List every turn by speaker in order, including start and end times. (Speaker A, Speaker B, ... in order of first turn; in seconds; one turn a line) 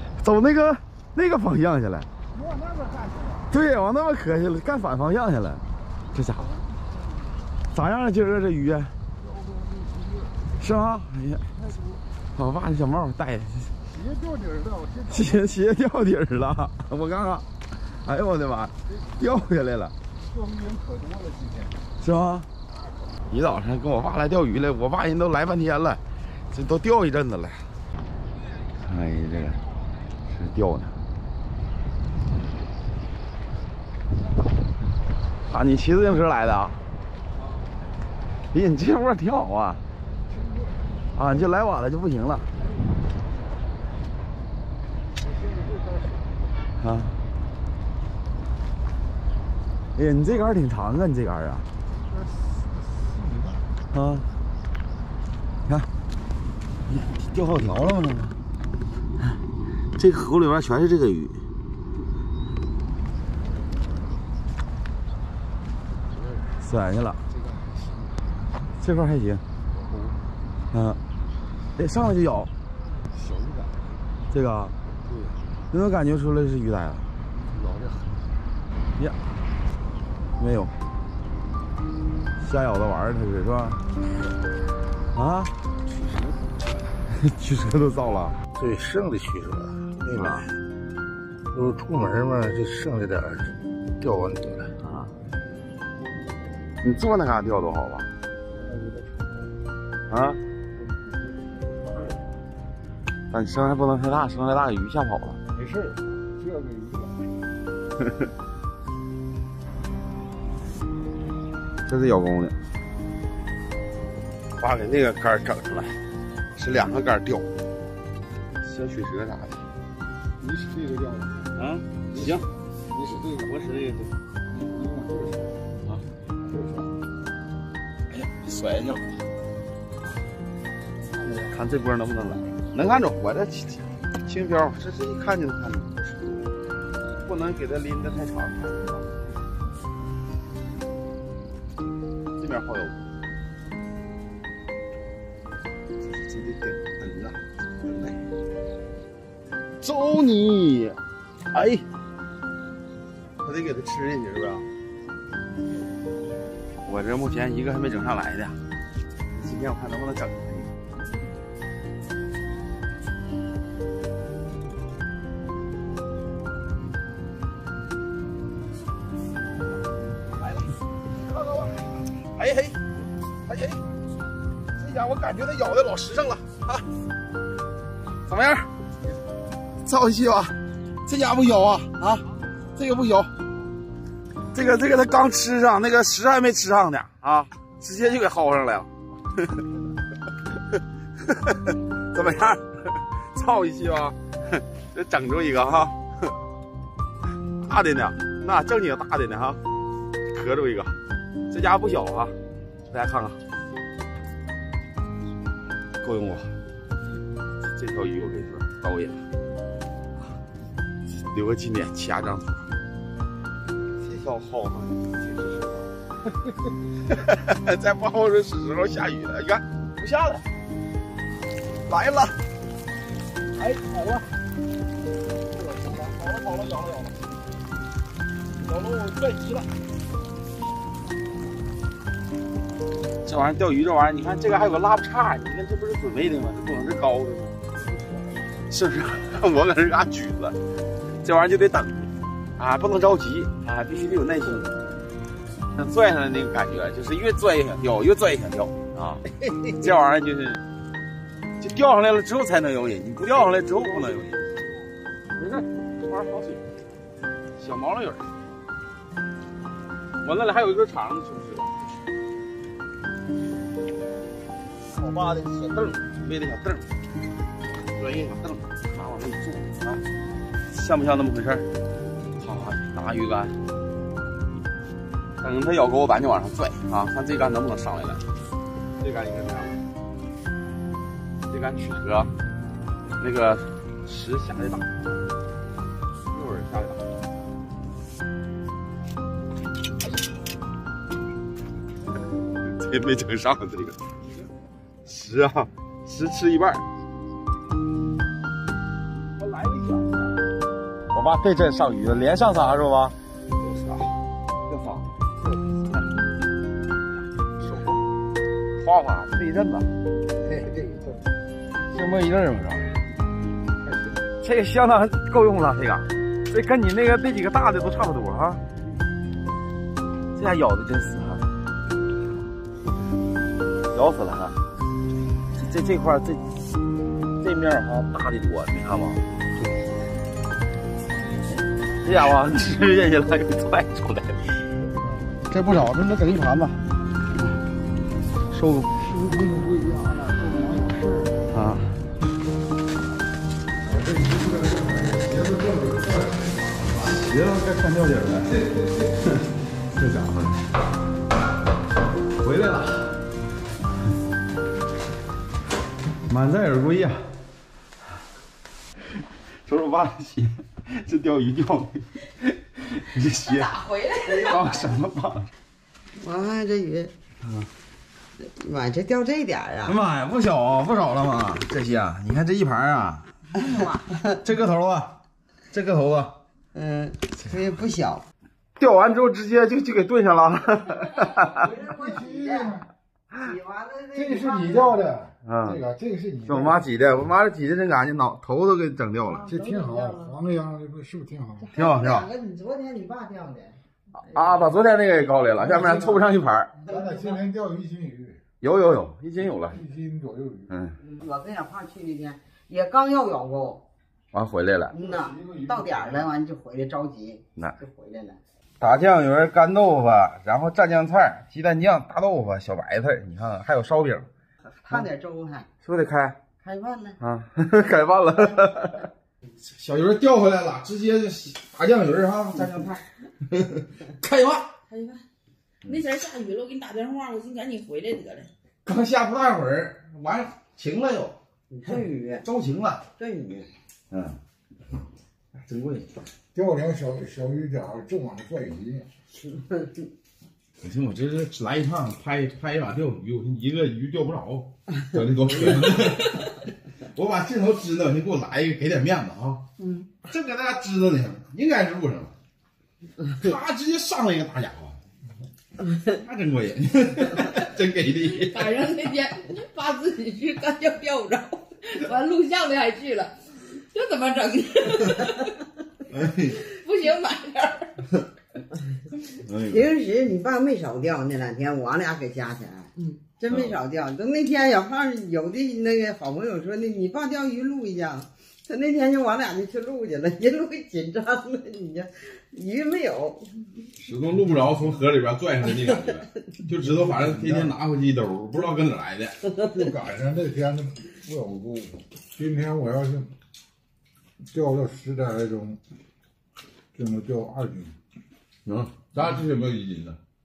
Speaker A: 0.2-2.1
Speaker B: 2.5-3.3
Speaker A: 3.5-6.4
Speaker A: 7.7-8.9
Speaker A: 10.6-11.5
Speaker A: 12.3-13.7
Speaker B: 14.1-14.9
Speaker A: 15.1-19.9
Speaker B: 20.5-21.6
Speaker A: 22.0-22.5
Speaker A: 23.3-27.7
Speaker A: 28.8-29.6
Speaker A: 30.3-31.0
Speaker A: 35.5-36.8
Speaker A: 38.5-39.8
Speaker A: 41.1-42.5
Speaker A: 46.8-47.2
Speaker A: 50.0-51.7
Speaker A: 53.9-54.2
Speaker A: 56.9-58.4
Speaker A: 60.0-61.4
Speaker A: 66.6-67.2
Speaker A: 68.8-69.4
Speaker A: 70.7-71.0
Speaker A: 71.8-72.5
Speaker A: 74.3-74.8
Speaker A: 75.7-77.1
Speaker A: 80.4-80.7
Speaker A: 82.4-83.8
Speaker A: 85.1-85.5
Speaker A: 87.1-88.4
Speaker A: 90.0-90.5
Speaker A: 94.8-95.1
Speaker A: 96.8-98.1
Speaker A: 100.1-100.4
Speaker A: 103.3-105.4
Speaker B: 105.6-106.0
Speaker B: 106.5-107.1
Speaker A: 111.9-112.5
Speaker A: 114.6-116.0
Speaker A: 116.5-117.5
Speaker A: 118.6-119.6
Speaker B: 120.5-121.3
Speaker A: 121.5-122.5
Speaker A: 123.2-124.1
Speaker B: 124.7-125.5
Speaker A: 128.1-129.2
Speaker A: 131.5-136.4
Speaker A: 137.2-139.1
Speaker A: 142.3-143.0
Speaker A: 146.0-148.2
Speaker A: 149.8-151.0
Speaker A: 151.5-151.8
Speaker A: 153.4-154.7
Speaker A: 156.8-158.6
Speaker A: 159.3-160.7
Speaker A: 171.4-171.7
Speaker A: 172.3-172.8
Speaker A: 173.5-173.8
Speaker A: 174.8-176.8
Speaker A: 178.3-178.7
Speaker A: 179.8-182.2
Speaker A: 182.8-183.3
Speaker A: 184.5-188.9
Speaker A: 191.3-194.2
Speaker A: 194.9-196.0
Speaker A: 197.6-199.6
Speaker A: 200.3-201.0
Speaker A: 201.5-202.3
Speaker A: 202.9-203.4
Speaker A: 206.0-206.5
Speaker A: 207.7-209.2
Speaker A: 211.2-212.6
Speaker A: 214.0-215.9
Speaker A: 217.1-220.5
Speaker A: 221.9-222.3
Speaker A: 226.5-227.1
Speaker A: 228.7-229.7
Speaker A: 233.2-237.6
Speaker A: 238.7-240.6
Speaker A: 241.2-244.7
Speaker A: 245.7-250.6
Speaker A: 251.6-254.4
Speaker A: 255.4-256.6
Speaker A: 257.6-258.3
Speaker A: 260.2-261.7
Speaker A: 264.9-266.9
Speaker A: 267.9-270.0
Speaker A: 270.7-271.7
Speaker A: 272.4-273.6
Speaker A: 275.4-278.2
Speaker A: 279.0-279.8
Speaker A: 281.5-282.3
Speaker A: 283.2-284.9
Speaker A: 286.3-287.0
Speaker A: 292.6-294.0
Speaker A: 295.0-296.8
Speaker A: 301.1-304.1
Speaker A: 304.7-305.2
Speaker A: 307.6-308.0
Speaker A: 308.8-309.9
Speaker A: 311.9-313.0
Speaker A: 314.4-318.6
Speaker A: 320.4-321.5
Speaker A: 323.9-324.6
Speaker A: 325.5-326.4
Speaker A: 327.4-329.2
Speaker A: 332.0-334.5
Speaker A: 335.5-336.7
Speaker A: 338.5-338.9
Speaker B: 339.2-341.0
Speaker A: 341.5-342.0
Speaker A: 346.9-348.6
Speaker A: 349.9-350.6
Speaker A: 352.4-353.1
Speaker A: 356.3-357.3
Speaker A: 359.6-362.1
Speaker A: 362.8-365.5
Speaker C: 363.4-364.9
Speaker D: 366.1-367.1
Speaker A: 367.4-367.7
Speaker D: 368.4-369.9
Speaker A: 369.9-373.3
Speaker C: 373.6-374.0
Speaker A: 374.4-375.2
Speaker A: 375.7-376.4
Speaker D: 376.7-378.2
Speaker A: 378.8-381.6
Speaker D: 381.4-382.9
Speaker B: 382.2-382.7
Speaker D: 383.4-385.2
Speaker B: 384.3-386.8
Speaker A: 385.4-385.9
Speaker A: 386.4-389.5
Speaker D: 389.4-390.4
Speaker B: 389.5-391.6
Speaker D: 391.6-393.8
Speaker A: 391.7-392.2
Speaker A: 394.1-396.7
Speaker B: 396.8-398.4
Speaker D: 397.0-397.3
Speaker A: 398.6-399.8
Speaker B: 399.7-400.7
Speaker A: 400.7-401.0
Speaker D: 401.0-403.8
Speaker A: 404.3-404.9
Speaker D: 404.9-408.4
Speaker A: 408.8-414.3
Speaker D: 414.8-415.7
Speaker A: 415.8-416.4
Speaker D: 416.6-417.2
Speaker A: 417.2-419.1
Speaker A: 419.6-424.7
Speaker D: 424.9-425.2
Speaker C: 425.9-428.5
Speaker A: 428.8-433.0
Speaker D: 431.7-432.4
Speaker D: 433.2-433.7
Speaker A: 434.1-434.4
Speaker A: 435.6-436.1
Speaker B: 436.5-439.1
Speaker A: 440.8-449.6
Speaker C: 449.8-450.1
Speaker A: 450.2-452.3
Speaker A: 453.3-455.0
Speaker A: 456.1-458.8
Speaker C: 458.2-465.5
Speaker A: 466.1-466.5
Speaker C: 466.4-467.9
Speaker A: 469.4-469.8
Speaker D: 469.6-483.5
Speaker A: 484.0-489.4
Speaker B: 489.7-493.3
Speaker B: 494.5-495.8
Speaker B: 496.9-497.9
Speaker A: 498.6-500.2